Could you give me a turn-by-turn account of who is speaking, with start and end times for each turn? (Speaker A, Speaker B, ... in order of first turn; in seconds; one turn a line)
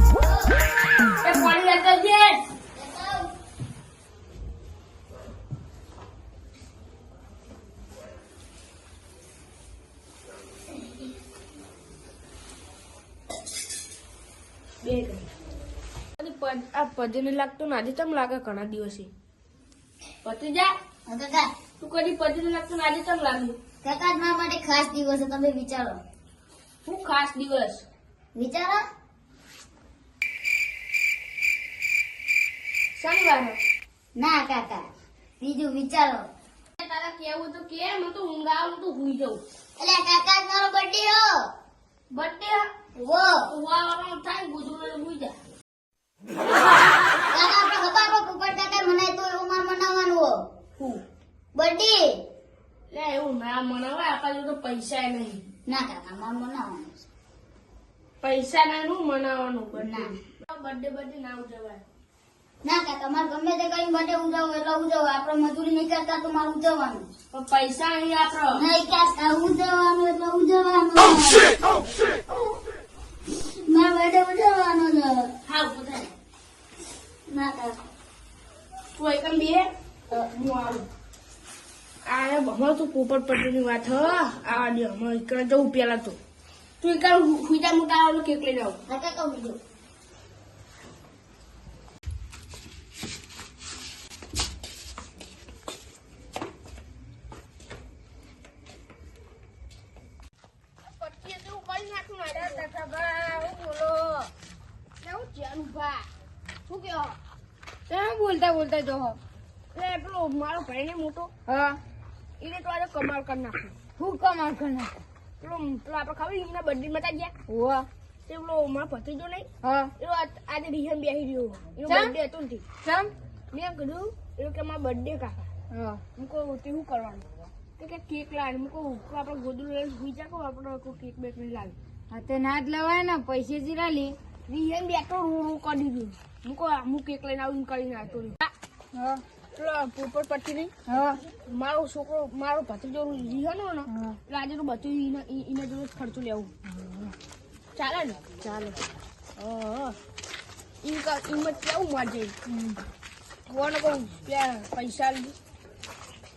Speaker A: 0.2-0.6
Speaker B: 1.2-2.4
Speaker A: 2.8-3.3
Speaker B: 14.8-15.3
Speaker B: 16.2-19.1
Speaker B: 20.2-20.8
Speaker A: 21.1-21.5
Speaker B: 21.8-23.6
Speaker A: 23.8-26.0
Speaker B: 26.9-27.9
Speaker A: 28.4-28.8
Speaker B: 33.0-33.6
Speaker A: 34.2-34.9
Speaker A: 35.4-36.3
Speaker B: 36.8-39.4
Speaker A: 39.8-41.5
Speaker B: 42.1-42.9
Speaker A: 43.0-43.4
Speaker B: 43.5-45.4
Speaker A: 47.3-50.4
Speaker B: 50.8-51.0
Speaker A: 51.5-52.1
Speaker B: 52.9-55.4
Speaker A: 55.7-57.1
Speaker B: 58.2-61.8
Speaker A: 59.8-60.1
Speaker A: 62.6-67.1
Speaker B: 67.3-68.6
Speaker A: 68.5-71.8
Speaker A: 73.3-75.3
Speaker B: 75.5-76.1
Speaker A: 77.3-77.8
Speaker B: 78.9-80.9
Speaker B: 82.1-86.2
Speaker B: 86.8-88.8
Speaker A: 88.9-89.6
Speaker B: 100.8-104.3
Speaker C: 103.1-104.1
Speaker B: 105.0-106.1
Speaker B: 106.7-107.2
Speaker C: 107.9-109.2
Speaker B: 109.7-111.3
Speaker C: 111.5-111.8
Speaker B: 112.4-113.8
Speaker C: 114.0-115.0
Speaker B: 115.4-117.3
Speaker C: 117.5-117.9
Speaker B: 118.3-119.5
Speaker C: 119.6-119.9
Speaker B: 120.0-122.7
Speaker C: 121.9-122.1
Speaker C: 122.8-123.1
Speaker B: 123.5-125.5
Speaker C: 125.7-126.0
Speaker B: 126.2-127.2
Speaker B: 127.8-131.8
Speaker C: 132.1-134.2
Speaker B: 134.5-138.5
Speaker C: 138.9-139.2
Speaker B: 139.5-140.7
Speaker C: 140.9-141.2
Speaker B: 141.4-146.5
Speaker C: 143.9-144.2
Speaker C: 146.7-147.1
Speaker B: 147.8-148.8
Speaker B: 149.4-149.9
Speaker C: 149.5-149.8
Speaker B: 150.8-152.3
Speaker C: 152.5-152.8
Speaker B: 153.5-155.4